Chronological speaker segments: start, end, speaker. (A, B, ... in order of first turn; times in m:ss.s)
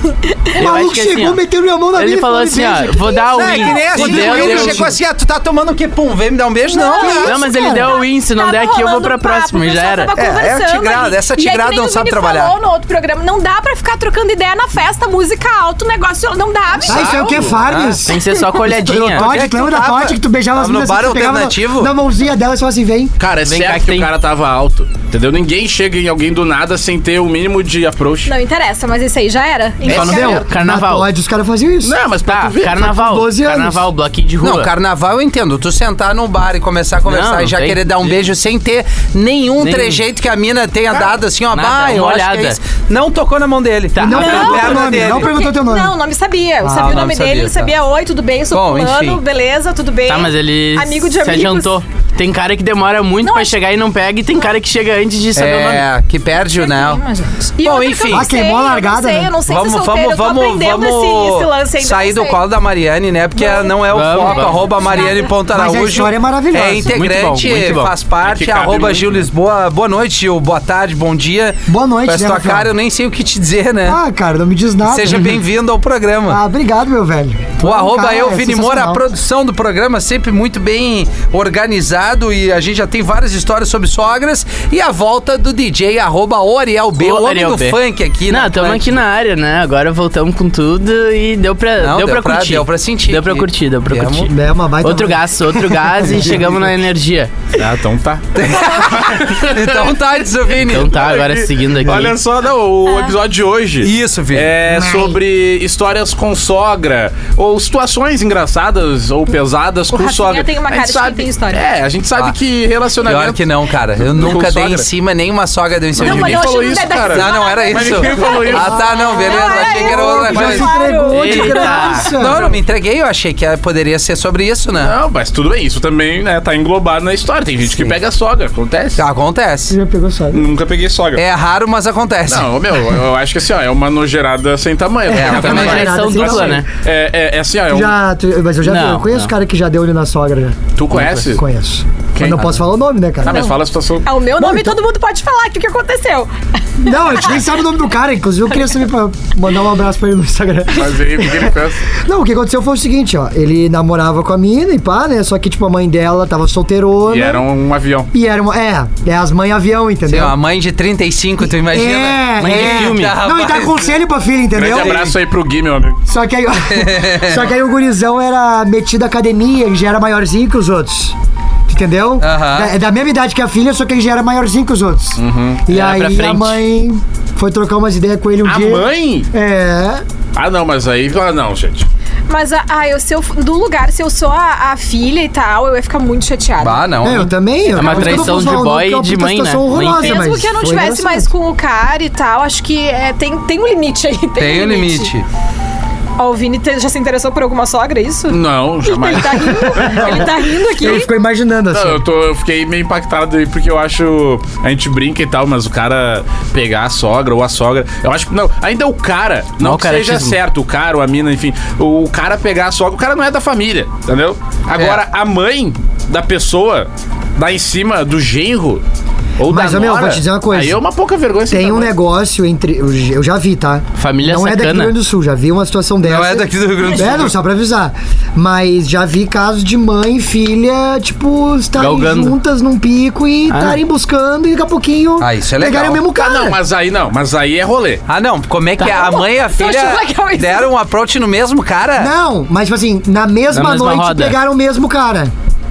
0:00.3-0:00.6 A
0:00.6-0:01.4 B
0:00.6-0:05.0 C
0:01.9-0:04.9 B
0:03.0-0:04.0 A
0:03.3-0:07.3 D
0:06.7-0:17.6 A
0:07.0-0:07.9 C
0:07.1-0:10.1 B
0:10.1-0:12.5 D
0:16.8-0:18.0 D
0:16.8-0:23.1 C
0:18.0-0:19.3 B
0:19.1-0:21.9 D
0:23.2-0:28.3 E
0:23.4-0:24.1 B
0:28.2-0:30.4 A
0:29.8-0:30.5 E
0:29.9-0:32.0 C
0:29.9-0:31.1 B
0:31.8-0:32.9 E
0:32.3-0:34.7 B
0:32.8-0:33.8 C
0:34.4-0:45.3 D
0:37.0-0:38.2 B
0:39.6-0:40.0 B
0:41.5-0:42.6 B
0:43.9-0:44.8 B
0:44.0-0:45.9 C
0:44.1-0:51.8 A
0:46.6-0:47.0 C
0:46.7-0:47.7 D
0:48.5-0:49.2 D
0:50.1-0:55.9 B
0:53.2-0:53.6 A
0:55.3-0:57.0 D
0:56.5-1:02.4 A
0:57.6-0:58.3 D
0:58.1-0:59.4 C
0:59.4-1:14.0 D
1:03.3-1:05.4 A
1:03.9-1:04.8 B
1:05.4-1:07.0 C
1:06.9-1:07.9 B
1:08.2-1:09.3 E
1:11.7-1:12.7 C
1:13.8-1:15.4 C
1:14.8-1:16.4 D
1:16.3-1:19.1 C
1:17.6-1:29.0 D
1:27.0-1:37.3 B
1:31.8-1:34.3 D
1:34.2-1:36.6 C
1:37.5-1:40.0 E
1:38.3-1:40.9 D
1:40.5-1:54.9 E
1:40.6-1:42.2 B
1:42.8-1:43.1 A
1:43.8-1:44.5 D
1:44.7-1:45.2 C
1:49.9-1:51.6 A
1:53.0-1:56.5 D
1:56.0-1:58.9 E
1:56.0-2:02.1 A
1:57.1-2:00.7 D
1:59.5-2:02.4 C
2:00.3-2:00.6 E
2:01.1-2:02.1 B
2:02.1-2:04.9 D
2:02.2-2:02.6 E
2:04.8-2:09.0 E
2:07.7-2:08.0 D
2:09.0-2:09.8 D
2:09.7-2:10.4 C
2:10.3-2:11.2 E
2:11.2-2:12.5 D
2:12.3-2:18.0 E
2:15.1-2:16.0 D
2:15.1-2:16.6 C
2:15.2-2:16.7 B
2:17.7-2:23.5 C
2:18.6-2:19.3 B
2:20.8-2:21.4 E
2:22.1-2:22.6 E
2:23.2-2:24.1 E
2:23.2-2:27.4 A
2:24.4-2:24.8 C
2:26.8-2:37.4 C
2:30.7-2:31.8 E
2:37.1-2:38.1 E
2:38.1-2:40.4 C
2:40.1-2:43.9 D
2:41.7-2:45.0 C
2:42.4-2:43.2 B
2:44.5-2:46.0 E
2:44.7-2:45.1 D
2:46.1-2:51.1 C
2:46.7-2:47.4 D
2:51.7-3:00.0 C
2:52.2-2:52.7 D
2:55.2-2:55.6 E
2:55.7-2:56.6 B
2:58.4-2:59.3 E
3:00.4-3:01.8 E
3:02.3-3:06.9 A
3:06.6-3:08.5 D
3:07.0-3:11.3 C
3:07.8-3:10.3 B
3:09.8-3:15.1 A
3:14.4-3:15.2 D
3:16.2-3:21.1 A
3:18.3-3:20.3 E
3:19.6-3:22.0 C
3:21.7-3:38.8 E
3:29.6-3:30.4 B
3:34.8-3:35.0 D
3:39.4-3:41.9 E
3:39.5-3:40.8 C
3:41.5-3:56.6 C
3:44.0-3:44.9 B
3:46.0-3:47.3 D
3:51.8-3:52.3 B
3:53.5-3:53.8 B
3:55.2-3:56.0 D
3:56.1-3:58.0 E
3:58.1-4:02.1 D
3:58.8-4:00.7 A
4:02.0-4:05.3 C
4:03.5-4:04.4 B